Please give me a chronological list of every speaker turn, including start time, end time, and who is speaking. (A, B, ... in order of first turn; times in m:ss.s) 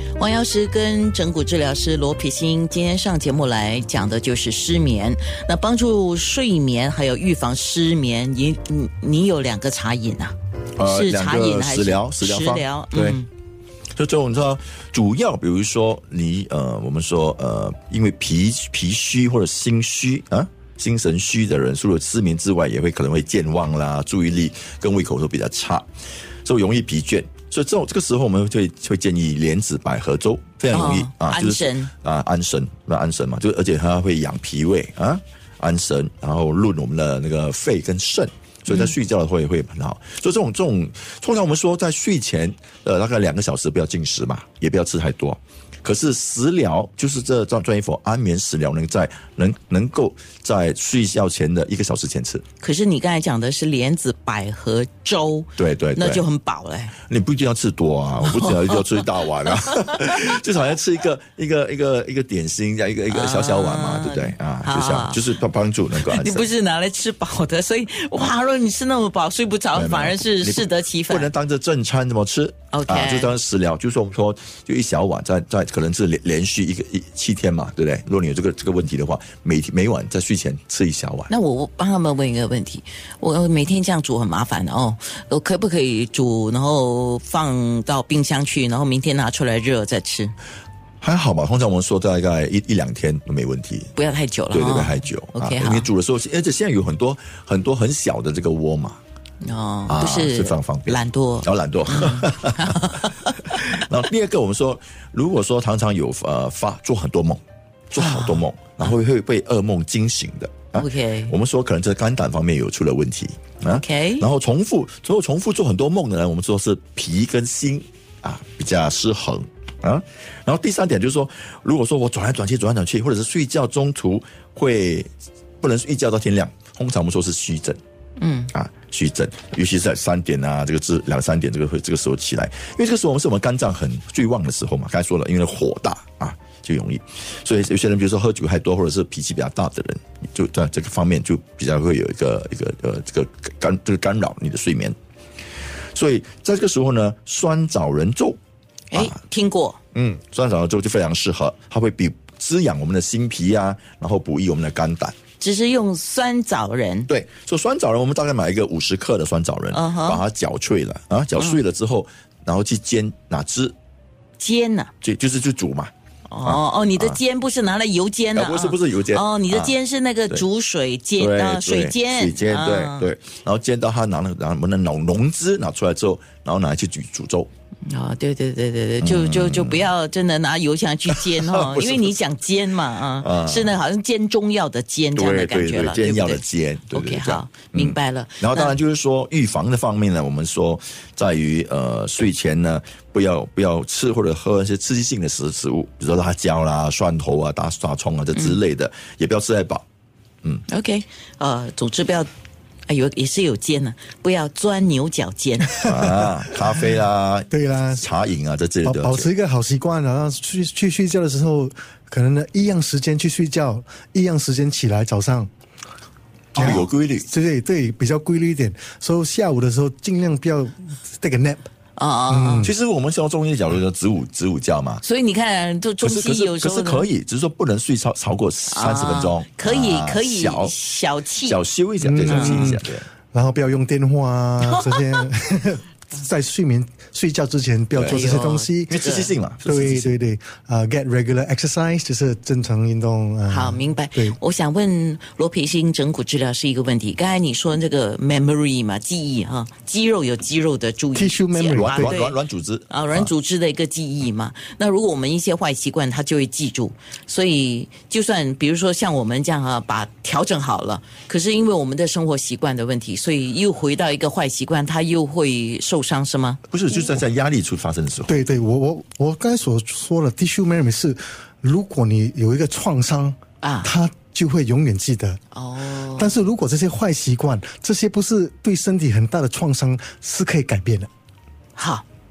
0:00.1-0:13.3 A
0:10.8-0:13.2 B
0:14.0-0:25.9 B
0:26.4-0:52.4 B
0:30.7-0:31.9 A
0:38.7-0:38.9 A
0:52.6-0:57.0 A
0:55.6-0:56.2 B
0:57.0-1:06.5 B
0:58.2-1:00.0 A
1:03.1-1:05.2 A
1:05.9-1:11.3 A
1:09.7-1:21.3 B
1:12.7-1:13.3 A
1:21.3-1:30.3 A
1:31.0-1:33.9 B
1:34.0-1:35.9 A
1:34.5-1:39.0 B
1:39.4-1:43.8 A
1:39.9-2:05.1 B
1:48.0-1:48.9 A
1:50.8-1:51.3 A
1:53.7-1:54.3 A
2:05.6-2:07.8 B
2:08.2-2:08.5 A
2:08.5-2:24.9 B
2:25.9-2:28.4 B
2:28.9-2:29.8 A
2:29.9-2:35.2 B
2:35.4-2:37.1 A
2:37.1-2:43.8 B
2:39.7-2:40.2 A
2:44.4-2:44.9 A
2:45.0-2:45.9 B
2:46.3-2:53.1 A
2:46.4-2:47.2 B
2:48.3-2:49.8 B
2:51.2-2:57.5 B
2:57.8-3:08.8 A
2:59.0-2:59.9 B
3:01.1-3:02.1 B
3:03.2-3:03.8 B
3:05.2-3:19.8 B
3:20.7-3:22.3 A
3:22.9-3:25.8 A
3:25.8-3:29.3 B
3:27.5-3:28.1 C
3:28.8-3:35.5 C
3:36.5-3:37.3 B
3:36.5-3:41.7 C
3:42.0-3:42.7 A
3:42.3-3:42.7 C
3:42.6-3:45.0 B
3:45.0-3:47.1 A
3:46.0-3:50.8 B
3:48.7-3:51.6 A
3:51.4-3:53.1 B
3:52.0-3:59.0 C
3:52.3-3:52.7 A
3:54.6-3:55.2 A
3:57.9-3:58.4 B
3:58.0-3:59.3 A
3:58.9-4:00.1 B
3:59.6-4:04.4 C
4:03.5-4:12.4 A
4:11.1-4:12.2 C
4:11.7-4:13.3 B
4:12.9-4:26.6 A
4:26.7-4:28.3 B
4:28.3-4:35.4 C
4:33.6-4:33.9 A
4:35.5-4:36.4 A
4:36.2-4:41.1 C
4:41.8-4:42.0 A